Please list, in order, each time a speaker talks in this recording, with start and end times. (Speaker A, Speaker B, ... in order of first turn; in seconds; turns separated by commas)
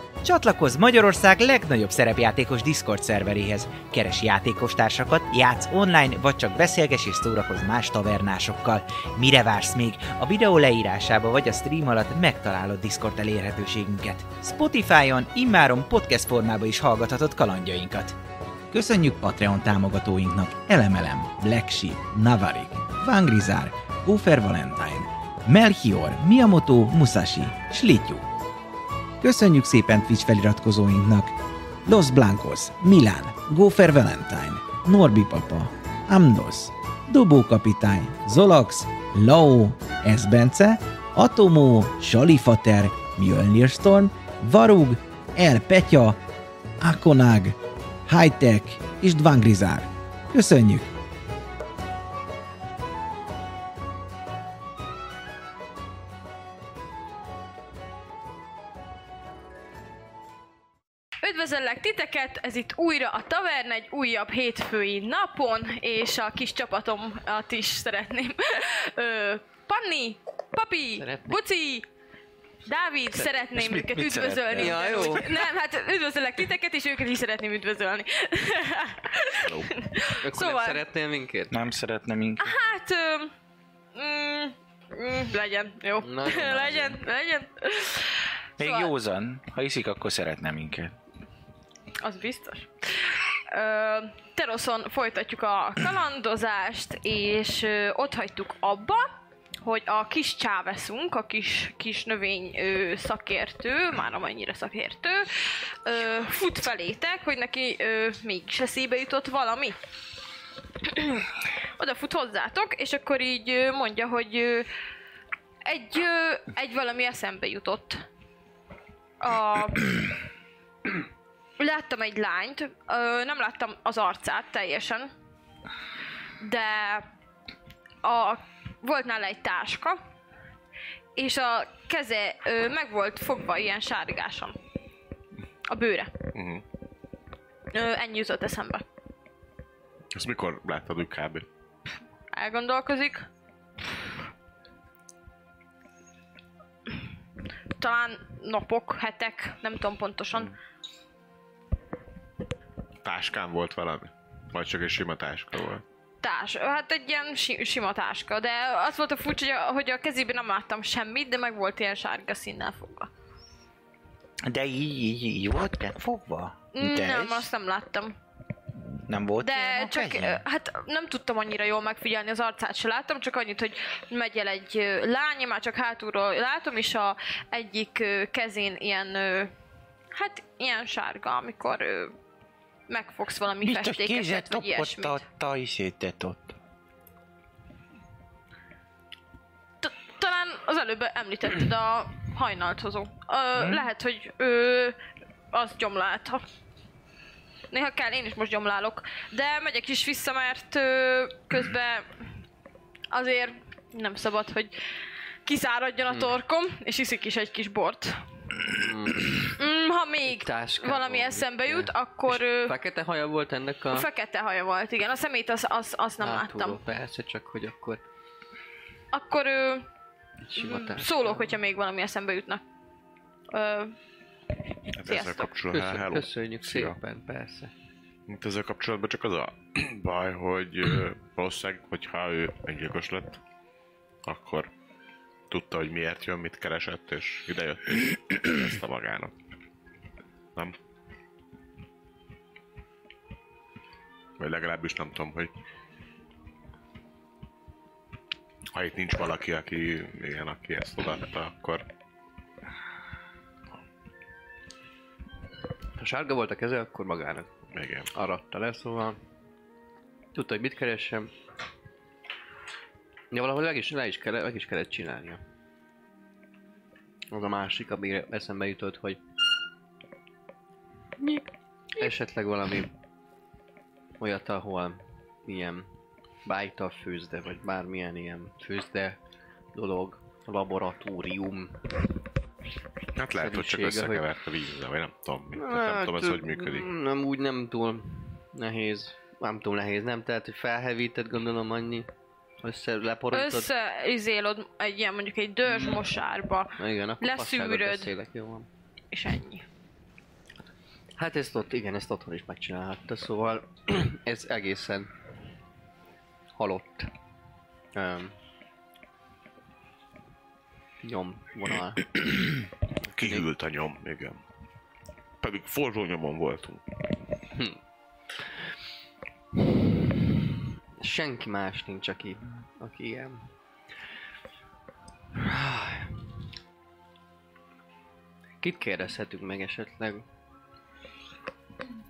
Speaker A: 0.2-18.2, Speaker A: 18.7-28.3, Speaker A: 29.2-46.2, Speaker A: 46.8-47.6, Speaker A: 48.1-50.9, Speaker B: 61.2-71.9, Speaker C: 71.0-71.4, Speaker B: 72.7-80.8, Speaker D: 73.6-75.2, Speaker C: 74.5-75.3, Speaker E: 79.4-79.7, Speaker C: 80.2-81.6, Speaker D: 81.5-82.5, Speaker B: 82.4-83.3, Speaker B: 84.0-88.9, Speaker C: 86.0-87.0, Speaker D: 88.6-91.0, Speaker B: 92.0-109.8, Speaker B: 110.8-114.7, Speaker B: 115.7-118.0, Speaker B: 119.2-120.0, Speaker B: 121.6-125.1, Speaker B: 126.4-127.1, Speaker B: 128.0-130.0, Speaker B: 131.2-134.6, Speaker B: 135.7-136.1, Speaker E: 136.3-136.6, Speaker B: 137.7-138.8, Speaker E: 140.1-141.5, Speaker B: 142.3-143.3, Speaker B: 147.8-150.5, Speaker E: 153.0-155.8, Speaker B: 156.2-163.1, Speaker D: 164.5-167.5, Speaker B: 166.7-168.2, Speaker D: 169.1-170.4, Speaker B: 169.4-179.5, Speaker B: 180.1-182.2, Speaker B: 182.9-185.2, Speaker D: 183.6-186.6, Speaker B: 189.8-195.0, Speaker D: 193.6-193.9, Speaker B: 195.5-196.4, Speaker B: 197.7-202.1, Speaker B: 203.1-204.8, Speaker B: 205.5-208.2, Speaker C: 208.7-209.5, Speaker B: 209.6-212.7, Speaker C: 210.3-214.1, Speaker B: 213.9-216.8, Speaker C: 216.2-218.0, Speaker B: 219.1-219.9, Speaker C: 220.4-221.6, Speaker B: 220.6-222.6, Speaker B: 223.5-224.0, Speaker E: 224.9-227.0, Speaker B: 225.1-225.5, Speaker C: 225.7-227.7, Speaker E: 228.3-233.4, Speaker E: 234.2-234.7, Speaker E: 235.5-239.3, Speaker E: 244.4-245.5, Speaker E: 248.7-251.9, Speaker C: 256.0-257.5, Speaker E: 257.7-258.1, Speaker C: 258.1-259.2, Speaker C: 260.3-261.3, Speaker C: 263.3-265.4, Speaker C: 267.3-269.2, Speaker C: 271.9-272.9, Speaker C: 274.2-275.9, Speaker C: 276.4-279.2, Speaker C: 279.7-281.9, Speaker E: 283.2-286.9, Speaker C: 283.4-284.3, Speaker C: 285.6-292.1, Speaker C: 292.6-293.7, Speaker B: 293.3-298.1, Speaker C: 295.7-296.0, Speaker C: 296.8-298.7, Speaker B: 299.1-299.6, Speaker C: 301.2-305.1, Speaker C: 306.6-307.1, Speaker C: 307.9-308.4, Speaker C: 311.0-312.5, Speaker C: 313.1-313.5, Speaker E: 313.1-314.4, Speaker E: 315.4-316.8, Speaker C: 319.6-320.4, Speaker C: 321.0-323.5, Speaker C: 325.4-326.3, Speaker C: 328.6-330.2